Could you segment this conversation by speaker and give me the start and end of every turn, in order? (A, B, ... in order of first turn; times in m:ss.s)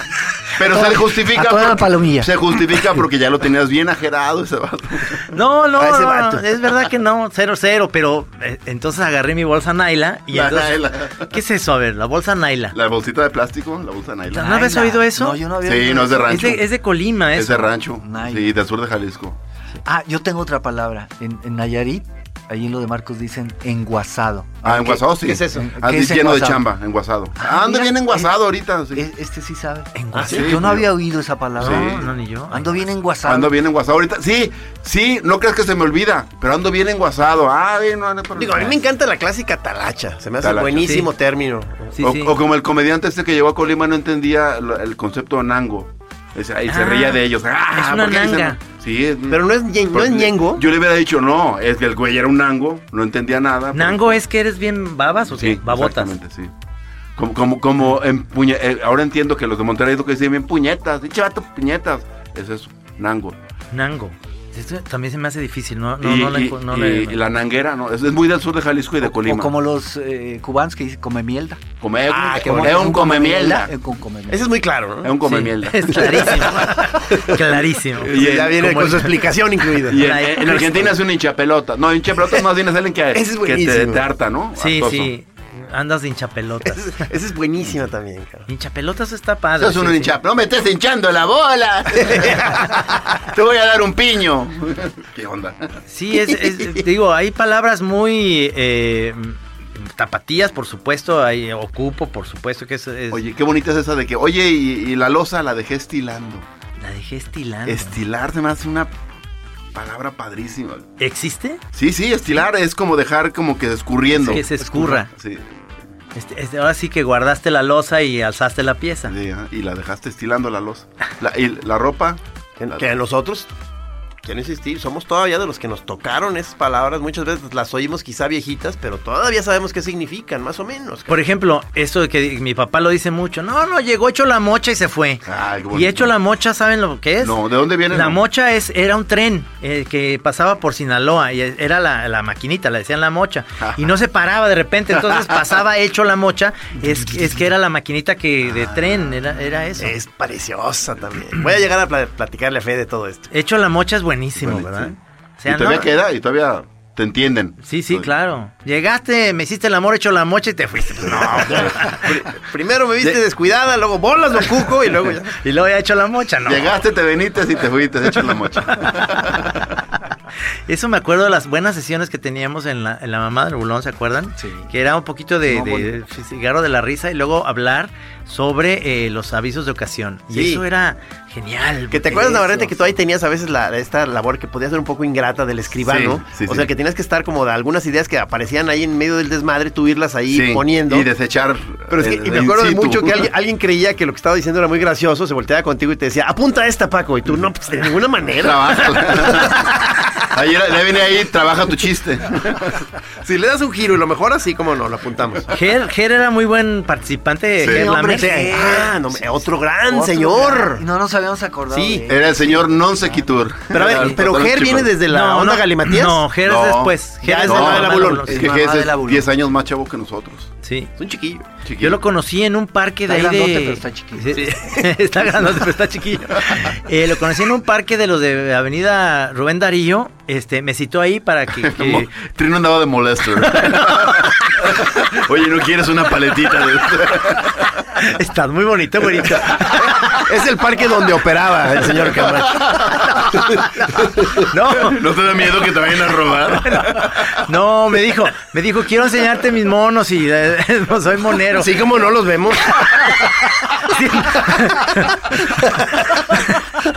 0:00.6-0:05.3 A
0:00.6-0:02.3 B
0:05.3-0:12.8 C
0:05.8-0:06.4 D
0:10.3-0:11.4 A
0:12.7-0:14.6 A
0:14.3-0:15.4 C
0:14.3-0:16.6 B
0:15.6-0:16.6 A
0:16.3-0:17.8 C
0:17.3-0:19.4 A
0:18.0-0:18.5 B
0:19.8-0:26.7 B
0:24.6-0:29.0 A
0:25.1-0:25.7 D
0:27.4-0:28.3 B
0:28.9-0:33.5 B
0:29.9-0:30.5 C
0:30.1-0:30.5 D
0:30.2-0:30.9 A
0:31.6-0:32.1 A
0:31.6-0:32.9 C
0:33.2-0:38.8 A
0:38.4-0:41.9 D
0:40.4-0:41.0 A
0:40.8-0:41.1 C
0:41.9-0:42.3 C
0:42.0-0:54.2 A
0:46.7-0:47.2 C
0:47.7-0:48.6 C
0:49.3-0:50.6 D
0:53.7-0:56.1 C
0:55.3-0:56.5 A
0:57.2-1:03.4 A
1:03.7-1:07.2 C
1:06.0-1:09.5 A
1:09.0-1:11.6 B
1:11.8-1:13.7 A
1:12.1-1:13.0 D
1:12.4-1:14.5 B
1:14.3-1:15.2 D
1:15.0-1:16.2 A
1:15.2-1:20.9 C
1:15.9-1:20.0 D
1:18.0-1:18.7 A
1:19.9-1:25.1 A
1:23.1-1:24.0 D
1:24.6-1:27.1 C
1:26.6-1:28.5 D
1:28.5-1:30.2 C
1:29.6-1:35.8 A
1:32.0-1:32.7 D
1:35.9-1:43.2 C
1:36.1-1:36.8 D
1:43.1-1:46.4 A
1:46.8-1:48.0 C
1:47.6-1:48.9 A
1:49.7-1:50.9 A
1:51.0-1:51.6 C
1:51.7-1:55.6 A
1:54.2-1:55.1 C
1:54.6-1:55.0 B
1:56.1-1:59.1 C
1:59.0-2:02.2 A
2:02.6-2:03.5 D
2:04.2-2:11.2 D
2:11.1-2:17.4 C
2:15.2-2:16.2 A
2:17.2-2:18.2 A
2:17.9-2:30.0 C
2:23.6-2:23.9 A
2:25.0-2:25.3 A
2:28.5-2:29.1 A
2:29.8-2:33.3 D
2:33.3-2:35.9 C
2:34.4-2:34.9 A
2:35.5-2:38.1 A
2:37.6-2:42.2 C
2:41.1-2:42.1 A
2:41.4-2:45.4 D
2:45.4-2:46.8 C
2:46.4-2:49.6 A
2:48.7-2:49.4 C
2:50.7-3:02.7 C
2:54.4-2:54.7 B
2:55.5-2:55.9 B
3:00.3-3:00.6 D
3:01.9-3:11.1 D
3:05.8-3:06.7 A
3:10.3-3:13.3 A
3:11.9-3:19.7 D
3:18.4-3:22.8 A
3:23.2-3:25.5 D
3:25.5-3:28.6 C
3:27.6-3:27.8 A
3:27.7-3:33.3 B
3:27.8-3:30.8 D
3:31.7-3:32.1 D
3:32.1-3:34.9 A
3:33.7-3:36.2 D
3:33.9-3:34.2 C
3:35.1-3:38.5 C
3:36.4-3:40.5 A
3:37.2-3:38.5 D
3:38.1-3:39.3 B
3:40.6-3:40.9 C
3:41.0-3:41.5 D
3:41.6-3:42.0 A
3:41.8-3:52.1 C
3:43.1-3:44.5 B
3:51.6-3:57.7 A
3:53.4-3:54.5 C
3:57.9-4:00.2 C
4:00.2-4:04.4 D
4:02.3-4:03.2 A
4:04.4-4:05.0 C
4:04.7-4:07.4 A
4:06.6-4:11.8 C
4:11.6-4:12.8 D
4:12.8-4:15.4 C
4:16.3-4:16.6 C